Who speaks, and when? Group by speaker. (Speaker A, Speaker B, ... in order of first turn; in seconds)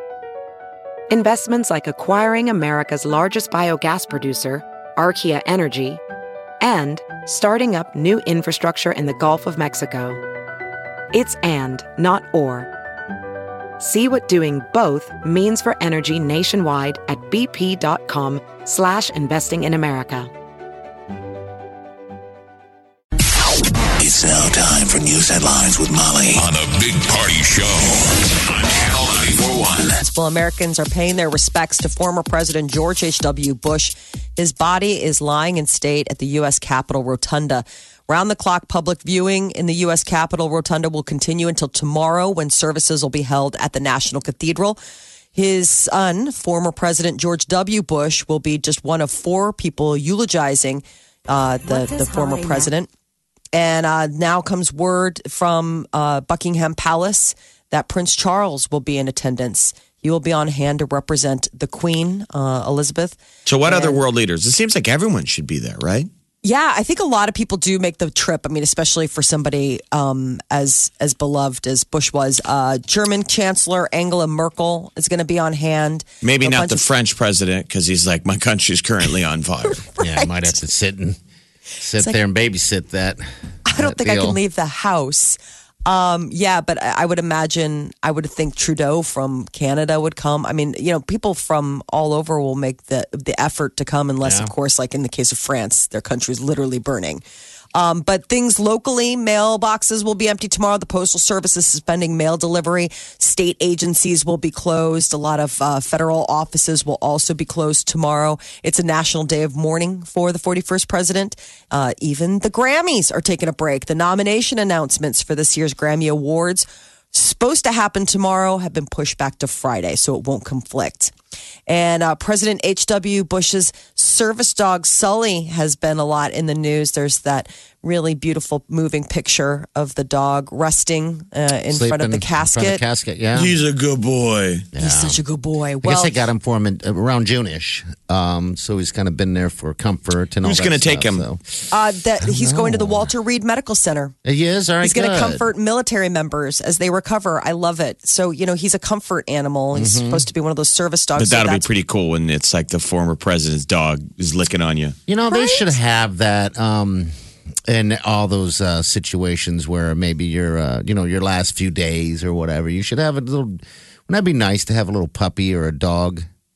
Speaker A: 1.1-6.0, 6.6-10.2, 11.1-12.7, 13.8-20.3
Speaker B: 24.0-30.0
Speaker C: 30.0-44.8, 45.3-52.9, 53.5-64.0, 66.4-76.8, 79.8-80.5, 83.7-97.2, 97.7-121.1, 121.7-132.8, 134.8-136.1, 141.7-144.1, 144.8-151.7, 155.3-155.6
Speaker D: 63.5-66.1, 76.2-79.8, 133.3-134.7, 140.4-141.2, 151.2-155.0
Speaker E: 80.0-81.2, 81.8-83.2, 83.7-84.4, 94.2-94.5, 131.7-133.6, 134.7-135.2, 135.8-141.4, 142.2-143.1, 144.2-145.4, 149.7-150.3, 155.1-157.1, 157.7-166.3